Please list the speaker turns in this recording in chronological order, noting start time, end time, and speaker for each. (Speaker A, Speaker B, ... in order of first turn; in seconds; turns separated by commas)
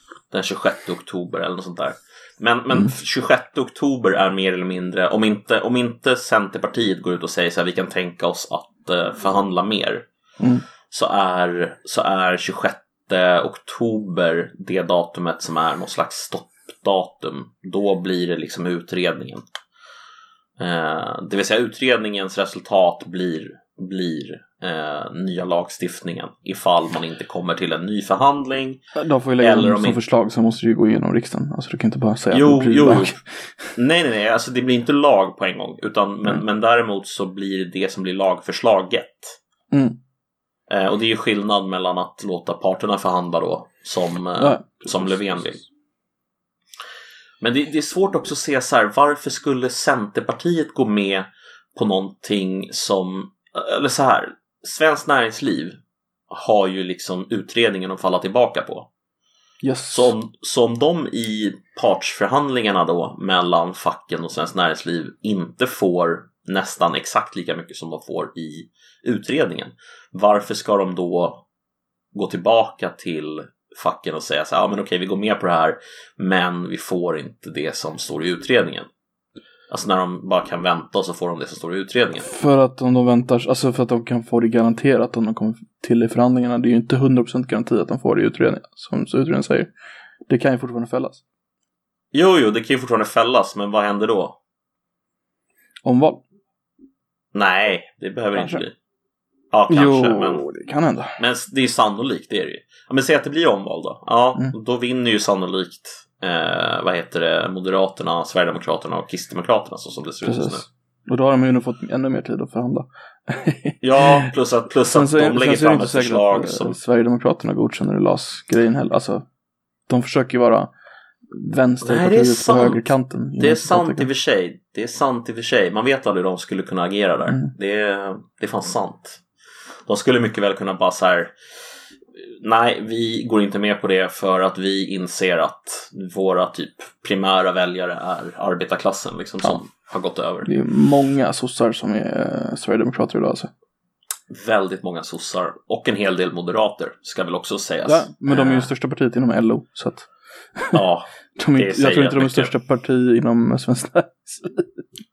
Speaker A: 0.3-10.1, Speaker A: 10.9-19.4, Speaker A: 20.6-28.8, Speaker B: 28.9-33.7, Speaker A: 29.4-30.0, Speaker A: 32.3-33.2, Speaker A: 33.8-39.4, Speaker B: 39.7-40.0, Speaker A: 40.7-45.6, Speaker B: 44.4-45.4, Speaker A: 47.4-55.8, Speaker A: 56.3-58.9, Speaker B: 59.6-60.1, Speaker A: 59.9-71.4, Speaker A: 72.1-78.9, Speaker A: 79.7-82.3, Speaker B: 82.2-89.7, Speaker B: 90.3-91.2, Speaker A: 92.1-94.4, Speaker B: 95.8-96.2, Speaker A: 97.3-98.8, Speaker B: 98.3-98.6, Speaker A: 99.5-100.4, Speaker B: 99.7-101.2, Speaker A: 101.2-110.7, Speaker B: 110.2-114.3, Speaker A: 113.8-116.8, Speaker B: 114.9-119.2, Speaker B: 119.9-120.7, Speaker B: 121.3-124.1, Speaker A: 121.8-129.2, Speaker A: 129.9-131.3, Speaker A: 132.3-140.5, Speaker B: 140.5-143.5, Speaker A: 144.3-148.7, Speaker B: 147.9-150.8, Speaker A: 150.7-152.5, Speaker B: 151.4-154.8